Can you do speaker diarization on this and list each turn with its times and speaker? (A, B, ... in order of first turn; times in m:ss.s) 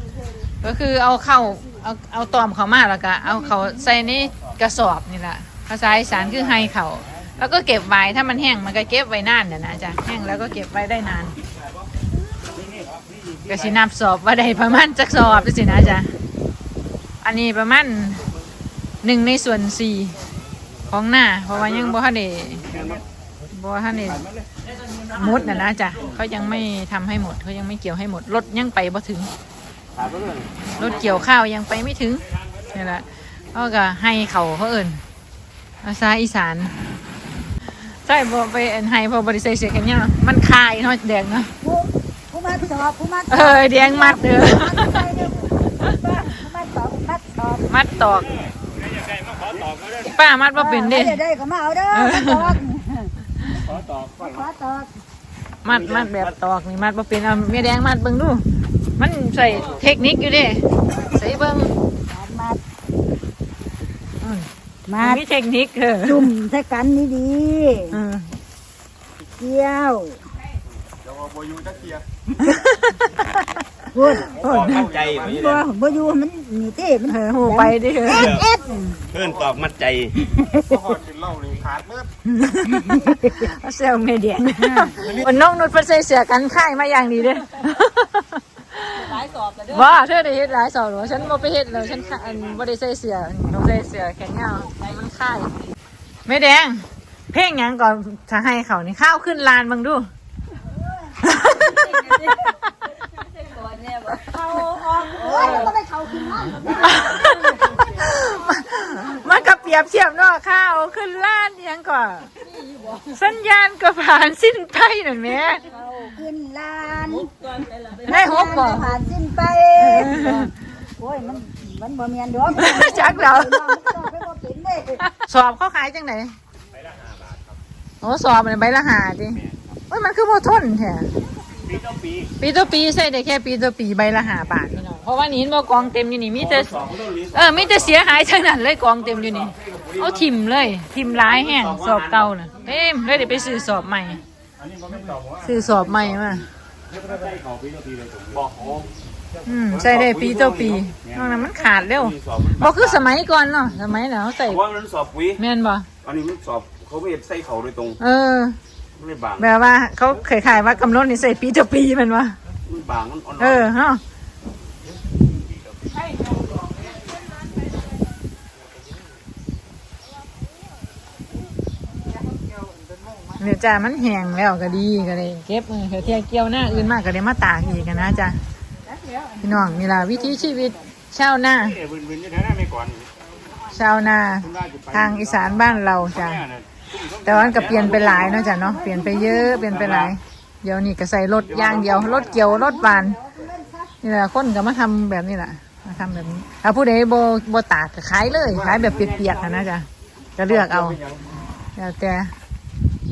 0:00.6-0:11.4 A
0:12.5-0:13.8 B
0:13.5-0:16.1 A
0:17.2-0:18.2 A
0:19.0-0:20.2 A
0:20.9-0:22.7 A
0:22.7-0:23.0 B
0:23.5-0:24.2 A
0:25.1-0:29.3 A
0:30.0-0:30.4 C
0:30.8-0:35.0 A
0:35.8-0:36.7 A
0:38.0-0:41.5 A
0:41.6-0:47.7 D
0:43.3-0:45.1 A
0:47.7-0:48.3 A
0:48.1-0:50.1 B
0:50.0-0:51.2 A
0:50.5-0:53.1 D
0:51.9-0:52.6 A
0:53.4-0:54.4 B
0:54.2-0:54.9 D
0:55.6-0:58.4 A
0:59.0-1:01.7 A
1:02.1-1:02.6 D
1:04.2-1:04.5 A
1:04.9-1:05.2 D
1:05.0-1:06.3 A
1:06.0-1:08.0 D
1:07.9-1:08.3 A
1:09.4-1:10.2 D
1:12.4-1:13.5 A
1:13.9-1:14.3 D
1:14.1-1:14.9 A
1:14.4-1:15.6 C
1:15.0-1:19.0 D
1:17.1-1:18.4 A
1:18.1-1:18.4 C
1:19.1-1:20.2 C
1:20.3-1:21.0 D
1:22.2-1:35.5 A
1:22.9-1:23.5 D
1:24.6-1:25.0 D
1:36.2-1:40.1 A
1:41.2-1:42.6 A
1:44.0-1:47.3 D
1:46.7-1:52.3 A
1:53.1-1:55.7 A
1:55.7-1:57.4 D
1:57.9-2:05.0 D
1:58.0-1:58.9 A
1:59.8-2:00.5 A
2:02.6-2:03.8 A
2:05.0-2:06.3 A
2:06.7-2:07.6 B
2:08.0-2:11.1 A
2:09.3-2:09.8 B
2:11.6-2:12.3 B
2:12.4-2:24.2 A
2:16.6-2:17.8 C
2:19.7-2:20.1 C
2:21.3-2:22.2 C
2:24.6-2:26.0 B
2:25.4-2:26.5 A
2:26.9-2:28.7 B
2:28.4-2:28.7 C
2:29.4-2:34.7 A
2:29.7-2:30.8 C
2:31.0-2:31.5 B
2:32.0-2:32.9 C
2:34.5-2:35.4 C
2:35.4-2:35.9 A
2:36.0-2:38.0 C
2:38.0-2:38.6 A
2:39.0-2:39.4 C
2:39.4-2:42.4 A
2:42.7-2:43.6 C
2:43.4-2:44.0 A
2:53.4-2:58.4 A
2:59.4-3:01.8 A
3:01.6-3:03.1 B
3:03.7-3:06.4 A
3:04.4-3:08.4 B
3:07.2-3:13.2 A
3:07.8-3:08.2 C
3:08.4-3:09.7 D
3:09.7-3:10.1 B
3:11.5-3:12.4 B
3:12.4-3:13.8 D
3:14.0-3:21.0 A
3:20.6-3:21.1 C
3:21.8-3:22.3 A